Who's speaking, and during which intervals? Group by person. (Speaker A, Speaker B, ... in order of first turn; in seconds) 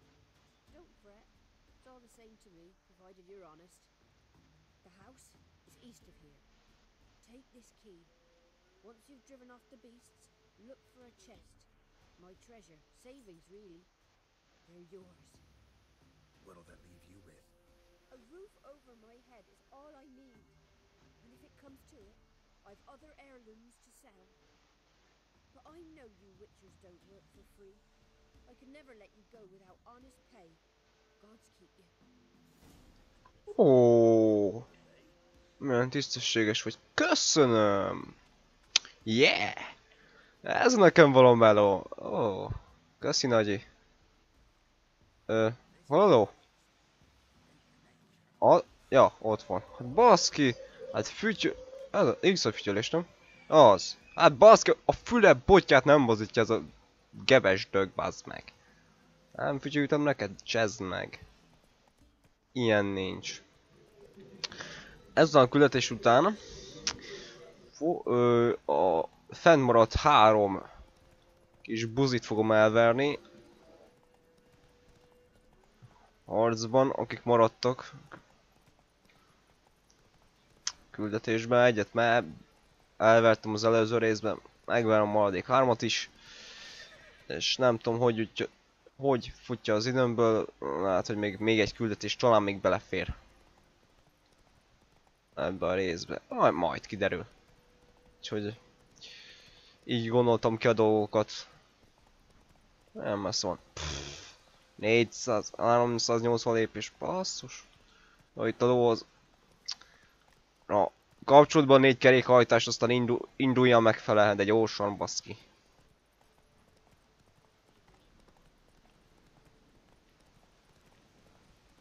Speaker A: 0.7-3.9, 4.8-6.5, 7.2-8.1, 8.8-13.9, 14.7-15.4, 18.1-20.6, 21.2-24.4, 25.5-27.8, 28.5-30.6, 31.2-31.9
Speaker B: 16.4-17.5, 45.7-46.4, 47.5-48.4
Speaker C: 33.5-34.7, 35.6-38.2, 39.0-39.7, 40.4-43.7, 45.3-46.3, 48.4-58.5, 59.4-61.2, 62.5-63.4, 65.2-66.4, 67.7-70.7, 71.7-73.2, 76.3-78.2, 80.9-82.3, 83.0-86.1, 87.3-93.2, 95.4-97.3, 98.2-98.6, 99.9-101.5, 103.0-107.7, 108.4-109.1, 110.7-115.4